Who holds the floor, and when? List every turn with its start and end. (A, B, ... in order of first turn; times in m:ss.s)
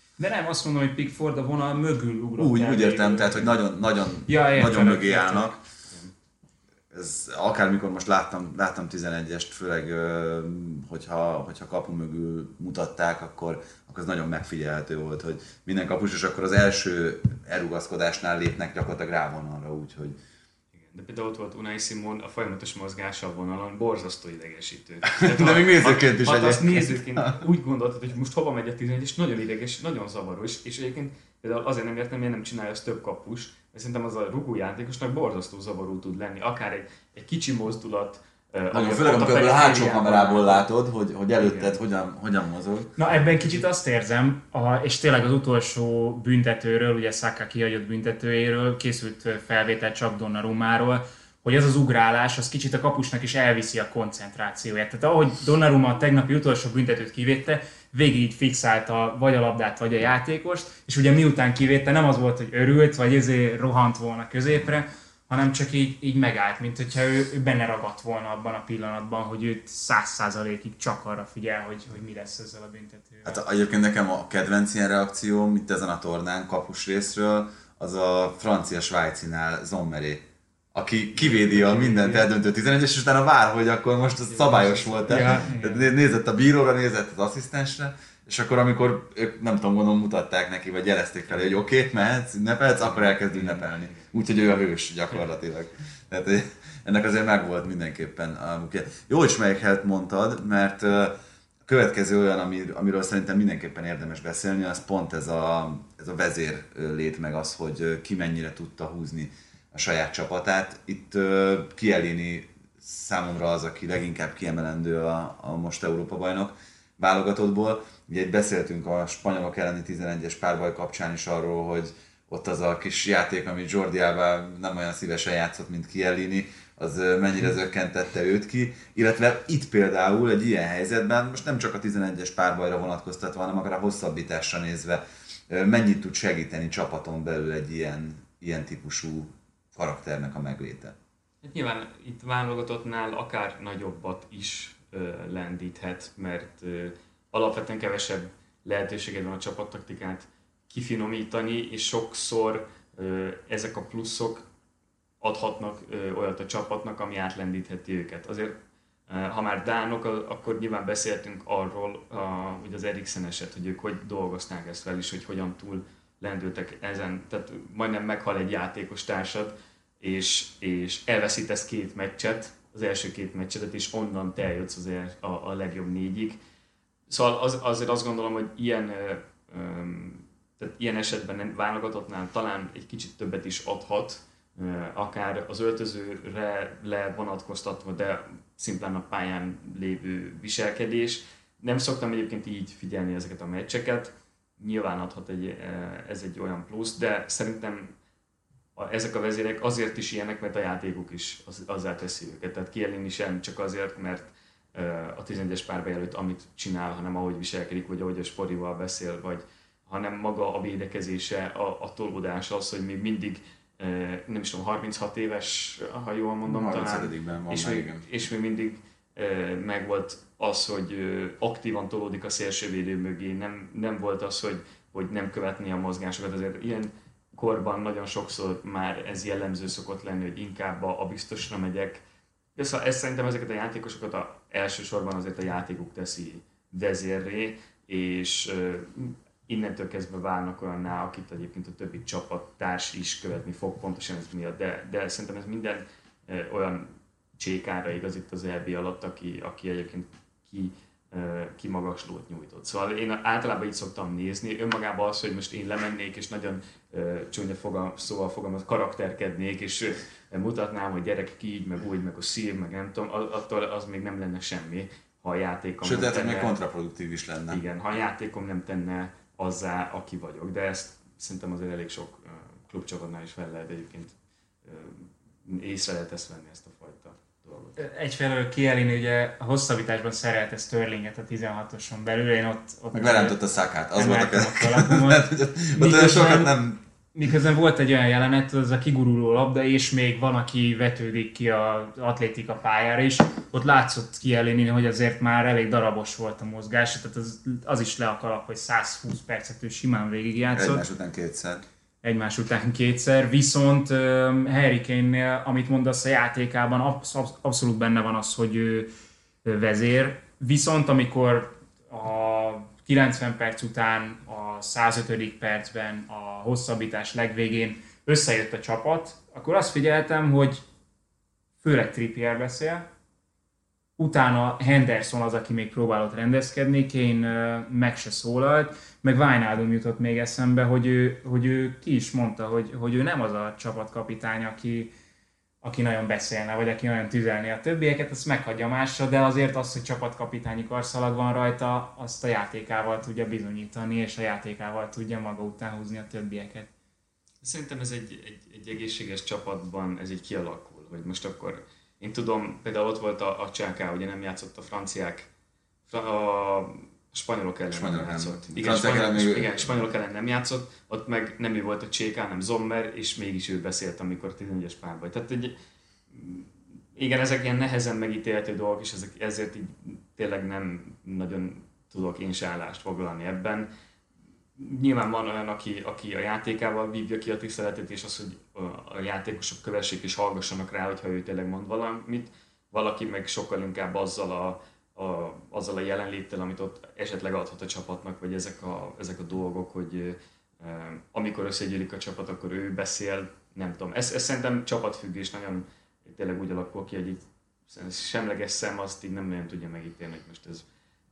0:00.2-0:03.5 A
0:02.4-0:05.6 B
0:04.3-0:05.6 A
0:06.9-0:20.2 B
0:20.7-0:40.7 C
0:25.0-0:27.4 B
0:38.7-0:43.2 B
0:41.4-0:41.8 C
0:43.0-1:13.4 A
1:13.2-1:41.1 B
1:21.2-1:22.2 C
1:24.2-1:25.7 C
1:25.1-1:25.9 A
1:31.3-1:31.6 C
1:32.8-1:34.2 C
1:41.6-2:21.0 B
2:21.4-2:34.4 C
2:35.2-2:38.5 C
2:39.1-2:56.4 C
2:57.1-3:17.9 C
3:18.8-3:52.0 C
3:36.4-3:38.1 B
3:52.6-4:26.6 C
4:25.8-4:27.6 B
4:27.5-4:37.8 C
4:37.8-4:43.4 A
4:42.9-4:46.8 B
4:43.9-4:46.5 A
4:47.1-5:00.8 A
5:00.5-5:01.6 B
5:02.0-5:08.9 A
5:09.4-5:20.6 A
5:21.6-5:22.8 A
5:24.0-5:34.9 A
5:35.6-5:46.7 A
5:47.4-5:55.3 C
5:55.9-6:05.6 C
5:57.7-5:59.7 B
6:06.1-6:13.7 C
6:14.6-6:40.6 C